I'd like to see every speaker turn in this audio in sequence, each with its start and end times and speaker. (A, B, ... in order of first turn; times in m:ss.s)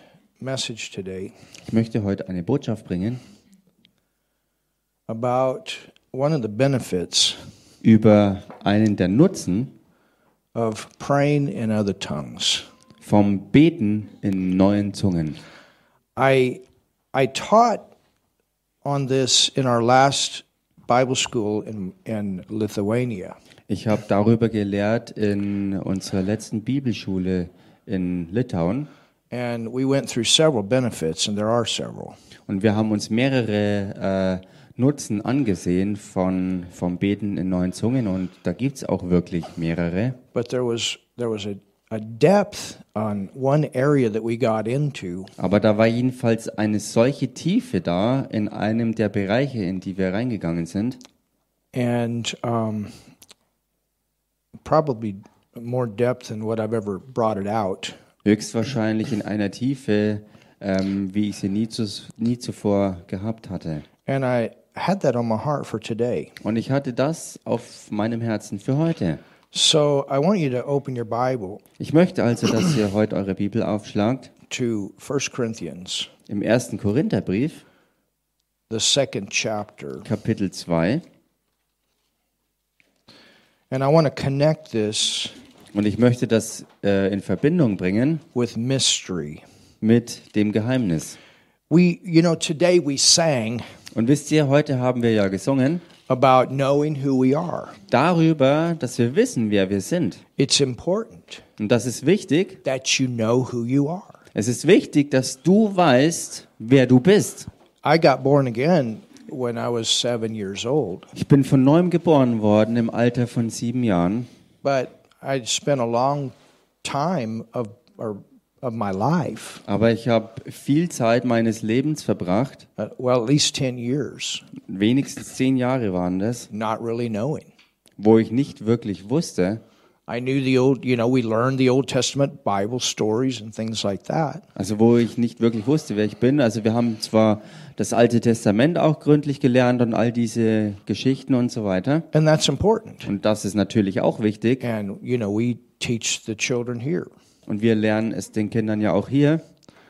0:00.4-0:01.3 A
0:01.7-0:03.2 B
0:05.1-0:07.4 A
0:07.8-0:09.7 B
0:10.6-0:12.6 A
0:13.0-0:15.4 B
0:16.2-0:16.6 A
0:17.1-0:17.8 A
0:18.8-0:23.4 A
0:23.7-0:28.9 B
0:29.3-0:32.2 A
0:32.5-0:40.2 B
0:40.3-0:45.3 A
0:45.4-0:51.0 B
0:51.7-0:53.0 A
0:54.6-0:58.0 A
0:58.2-1:03.8 B
1:04.1-1:06.3 A
1:06.4-1:09.2 B
1:09.5-1:11.6 A
1:11.8-1:14.3 B
1:14.5-1:16.1 A
1:16.3-1:17.6 B
1:18.7-1:20.1 A
1:20.0-1:21.0 B
1:23.7-1:25.4 A
1:25.7-1:28.2 B
1:28.3-1:29.4 A
1:29.8-1:31.2 B
1:31.7-1:33.6 A
1:33.9-1:35.8 B
1:36.1-1:37.8 A
1:37.9-1:40.2 B
1:40.4-1:41.4 A
1:41.6-1:42.6 B
1:42.6-1:44.2 A
1:44.4-1:47.5 B
1:47.8-1:51.1 A
1:51.2-1:54.3 B
1:54.6-1:59.6 A
1:59.7-2:02.7 B
2:02.8-2:04.4 A
2:04.7-2:06.5 B
2:06.5-2:07.5 A
2:08.0-2:09.6 B
2:10.1-2:14.4 A
2:14.6-2:22.1 B
2:22.1-2:23.1 A
2:23.1-2:24.6 B
2:24.6-2:27.1 A
2:27.5-2:29.4 B